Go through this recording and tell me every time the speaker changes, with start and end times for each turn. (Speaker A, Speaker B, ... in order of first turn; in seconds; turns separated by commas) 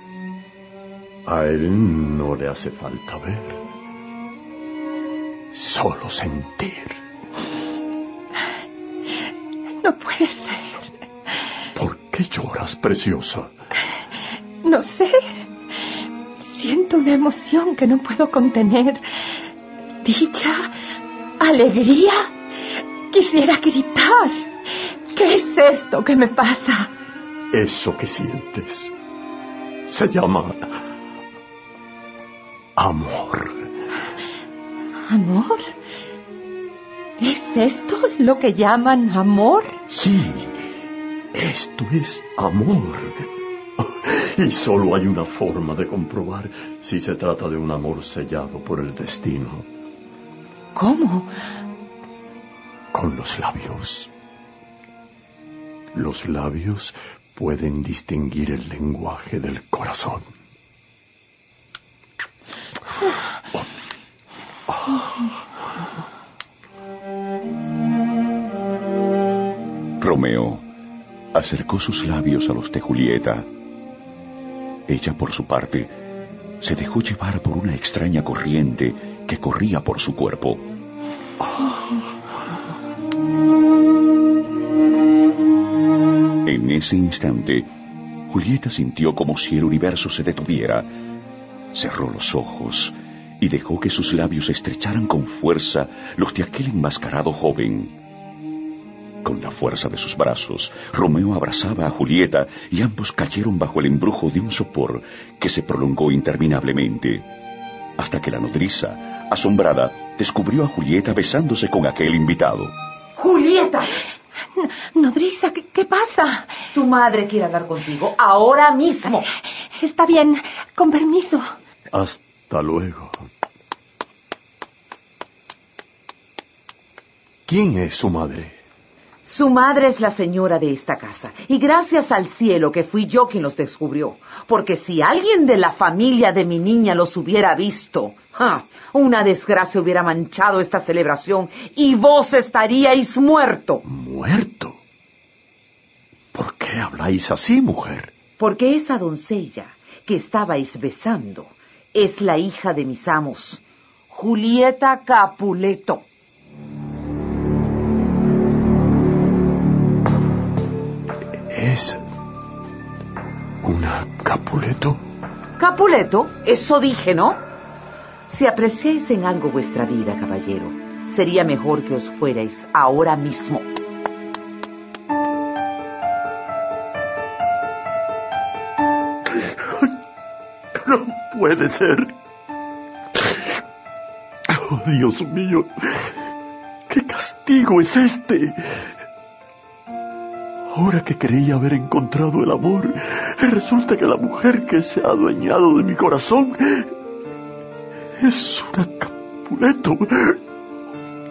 Speaker A: 1.2-3.6, Speaker A: 5.5-7.0, Speaker B: 9.8-10.9, Speaker A: 11.8-13.5, Speaker B: 14.6-15.4, Speaker B: 16.4-19.4, Speaker B: 20.0-20.7, Speaker B: 21.4-22.3, Speaker B: 23.1-24.4, Speaker B: 25.1-26.9, Speaker A: 27.5-28.9, Speaker A: 29.8-30.8, Speaker A: 32.8-33.7, Speaker B: 35.1-35.7, Speaker B: 37.2-39.8, Speaker A: 39.9-40.6, Speaker A: 41.3-49.7, Speaker B: 50.7-51.3, Speaker A: 52.9-54.1, Speaker A: 55.9-60.3, Speaker C: 70.0-70.6, Speaker C: 71.3-73.5, Speaker C: 74.9-75.9, Speaker C: 76.6-80.6, Speaker C: 86.4-87.7, Speaker C: 88.3-90.9, Speaker C: 91.7-97.9, Speaker C: 99.2-107.3, Speaker C: 108.0-112.7, Speaker D: 113.2-113.9, Speaker B: 114.6-116.6, Speaker D: 116.7-119.3, Speaker B: 119.7-121.5, Speaker A: 121.9-123.3, Speaker A: 127.5-128.6, Speaker D: 129.2-143.8, Speaker A: 143.8-144.8, Speaker A: 146.3-148.1, Speaker D: 148.4-156.1, Speaker A: 161.5-162.1, Speaker A: 163.6-165.0, Speaker D: 165.6-167.4, Speaker D: 168.3-173.7, Speaker A: 179.3-179.8, Speaker A: 180.8-182.1, Speaker A: 184.5-186.1, Speaker A: 186.9-188.9, Speaker A: 190.7-196.9, Speaker A: 198.2-200.4